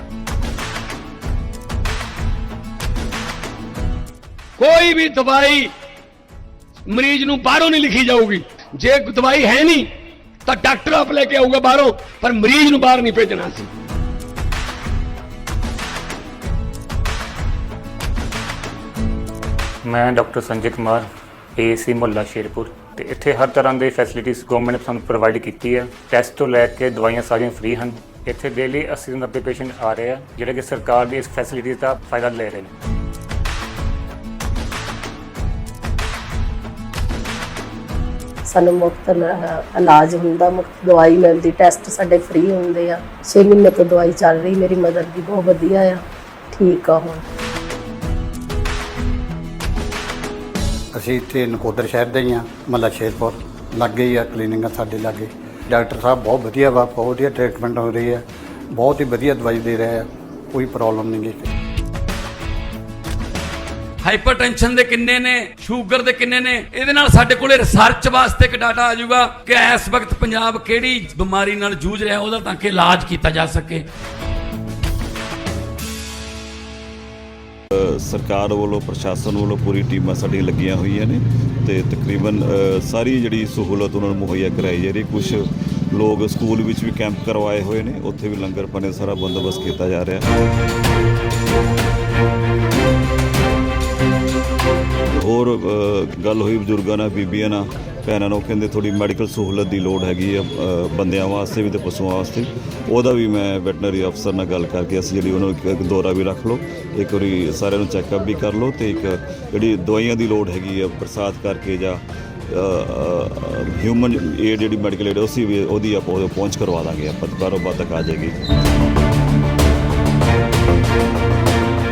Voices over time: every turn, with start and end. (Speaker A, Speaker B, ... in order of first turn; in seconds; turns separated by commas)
Speaker A: 4.6-5.7, Speaker A: 6.9-9.9, Speaker A: 10.4-13.7, Speaker B: 19.8-32.7, Speaker C: 38.5-47.2, Speaker D: 50.9-61.5, Speaker E: 64.0-73.8, Speaker F: 77.7-90.3, Speaker F: 95.2-118.4